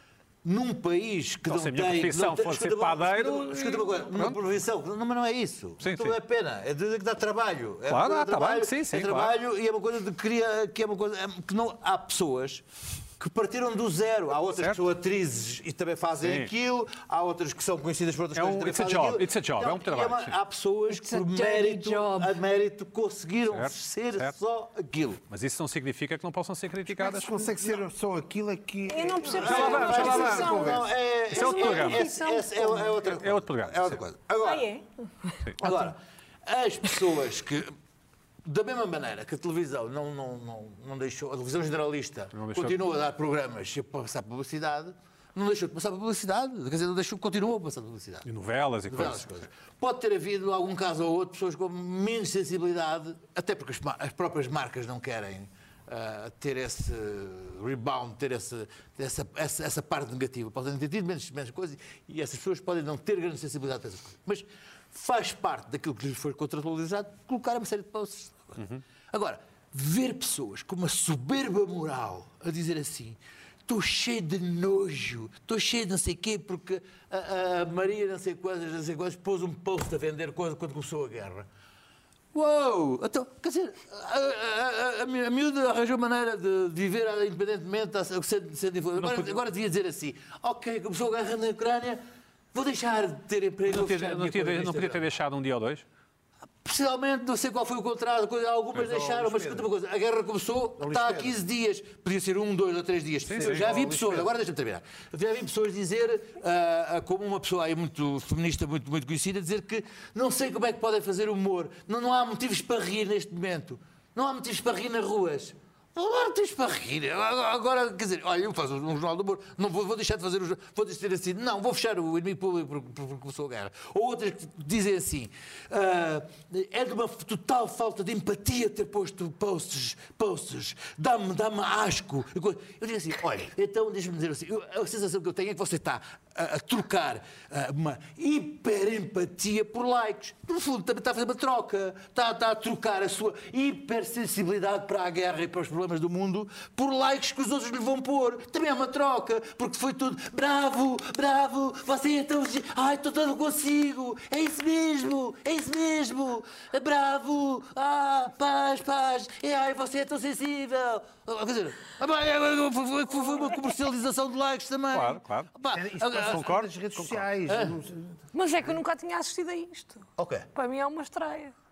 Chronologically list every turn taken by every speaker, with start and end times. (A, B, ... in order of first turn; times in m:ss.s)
0:00.4-0:12.6 A
0:01.5-0:04.4 B
0:05.8-0:06.2 B
0:07.9-0:09.3 B
0:13.2-0:25.2 A
0:14.6-0:14.8 B
0:16.2-0:16.5 B
0:18.3-0:20.4 B
0:20.9-0:22.4 C
0:23.5-0:24.3 B
0:25.3-0:27.4 B
0:26.9-0:30.9 D
0:28.9-0:33.0 C
0:29.3-0:34.7 A
0:29.4-0:30.7 B
0:31.3-0:32.1 B
0:33.1-0:34.0 B
0:34.4-0:35.9 C
0:35.6-0:37.7 A
0:38.4-0:48.3 A
0:42.3-0:42.8 B
0:48.2-0:49.3 B
0:48.9-1:21.5 A
1:08.6-1:08.8 B
1:22.3-1:32.0 A
1:29.0-1:29.4 B
1:32.5-1:35.0 A
1:33.7-1:35.8 B
1:36.6-2:46.5 A
1:38.7-1:39.7 D
1:40.8-1:41.4 D
1:43.2-1:43.6 B
1:43.4-1:44.3 D
2:44.9-2:45.5 B
2:45.7-2:48.2 D
2:46.2-2:47.2 B
2:47.4-2:47.8 A
2:48.3-2:51.5 E
2:50.2-2:50.5 A